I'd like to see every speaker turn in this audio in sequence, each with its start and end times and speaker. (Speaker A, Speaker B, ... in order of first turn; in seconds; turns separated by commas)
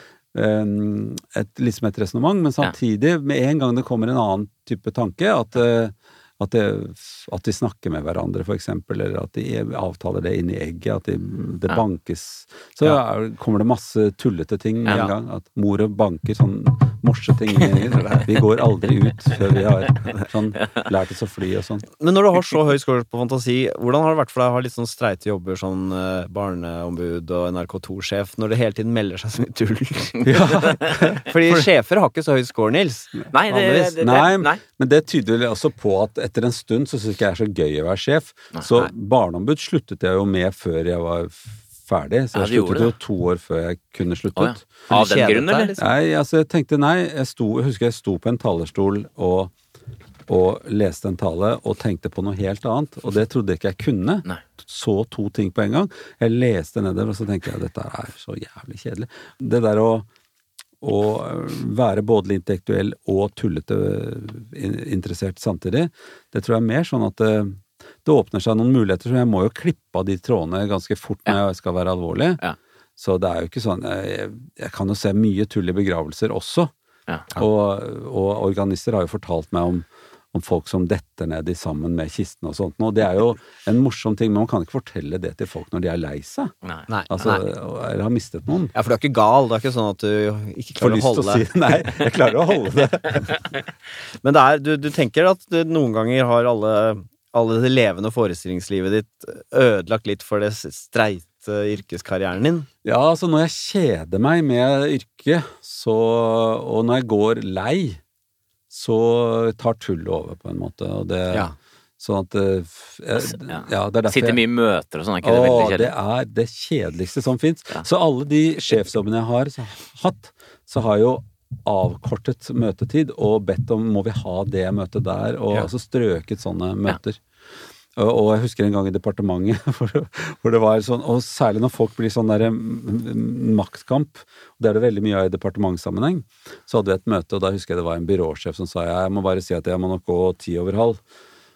Speaker A: 0.3-21.9, Speaker B: 22.0-34.0, Speaker A: 30.2-31.7, Speaker C: 33.3-34.6, Speaker A: 34.0-44.7, Speaker C: 42.3-42.9, Speaker C: 44.4-45.7, Speaker B: 44.9-45.8, Speaker A: 45.8-49.5, Speaker A: 50.3-60.1, Speaker A: 60.8-72.4, Speaker A: 73.0-76.7, Speaker A: 77.3-86.5, Speaker B: 86.9-87.4, Speaker A: 87.1-88.7, Speaker B: 88.7-91.5, Speaker A: 90.8-93.3, Speaker B: 94.2-102.7, Speaker A: 102.8-108.0, Speaker A: 108.7-111.5, Speaker A: 112.0-114.4, Speaker C: 113.4-115.9, Speaker A: 115.2-127.2, Speaker A: 128.0-141.0